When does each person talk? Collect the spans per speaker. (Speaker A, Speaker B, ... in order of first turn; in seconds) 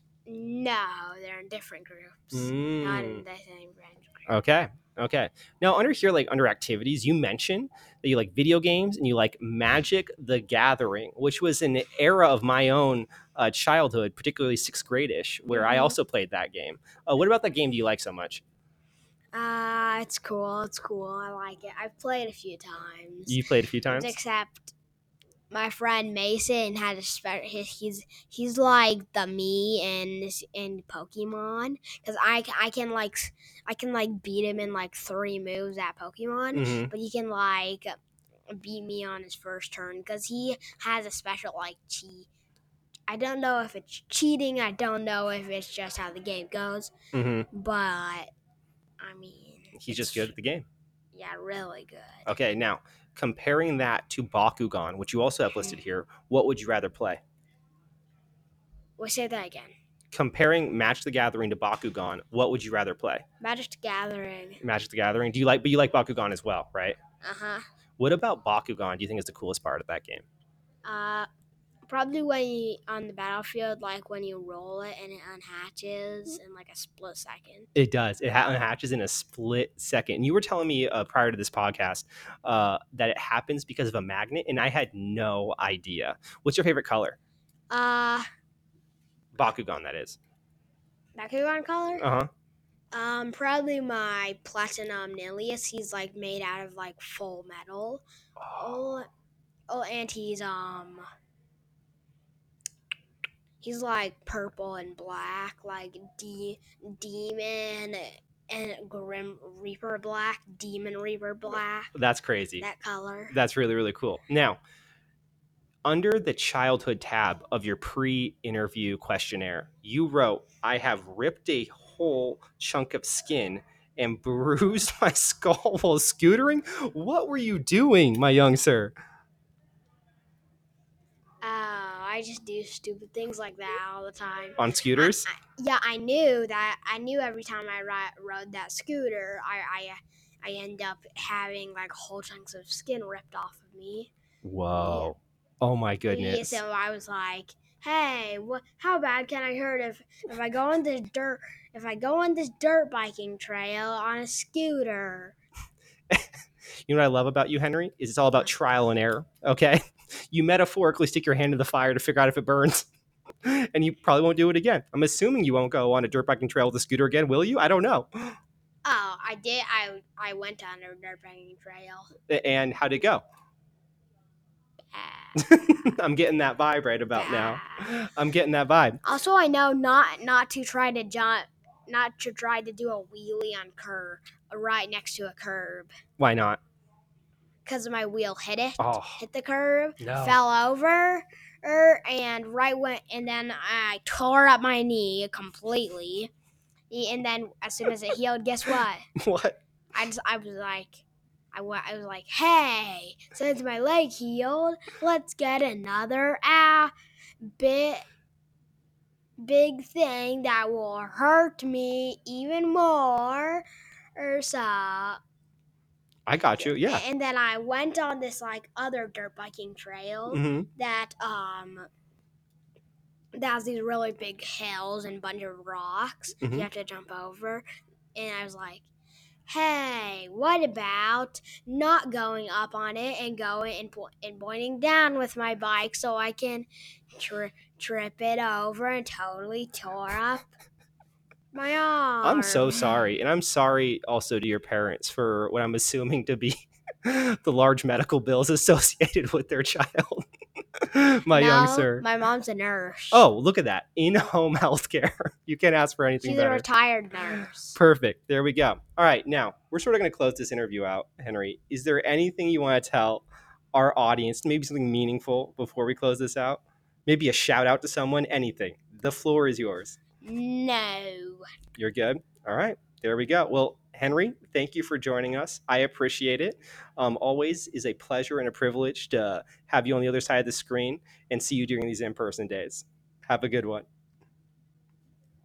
Speaker A: 0.3-4.3, 15.5-16.0, 19.3-24.7, 25.5-38.0, 38.5-42.3, 43.1-46.9, 47.5-48.3, 49.0-50.3, 51.1-52.3, 59.0-59.7, 63.4-64.6, 67.2-67.6, 70.8-71.3, 71.9-77.7, 87.7-88.2, 91.2-92.0, 92.9-99.1, 99.7-101.0, 103.6-111.9, 112.6-113.3, 131.4-144.1, 144.8-145.1, 146.1-155.3, 168.8-172.1, 174.9-175.4, 177.2-178.0, 179.0-185.9, 187.7-196.3, 196.9-199.1, 199.9-206.9, 207.4-208.0, 209.4-213.7, 214.2-215.2, 216.6-221.9, 223.3-228.8, 229.5-240.5, 241.5-242.8, 251.3-253.2, 256.2-257.8, 270.2-271.4
Speaker B: 2.3-3.2, 4.3-18.4, 23.3-24.2, 36.5-36.9, 47.1-47.5, 49.8-50.7, 52.3-57.2, 60.1-63.2, 64.6-67.0, 68.0-70.2, 77.8-87.2, 89.3-90.2, 92.0-92.3, 98.4-98.8, 111.9-112.7, 113.3-114.6, 115.8-128.9, 134.6-135.3, 144.4-146.6, 156.9-162.9, 163.4-168.4, 172.3-173.2, 175.4-179.0, 186.2-186.6, 188.8-189.2, 190.0-190.4, 199.2-199.6, 216.3-217.0, 220.3-220.7, 242.2-252.1, 253.1-256.6, 257.8-270.0, 271.8-283.9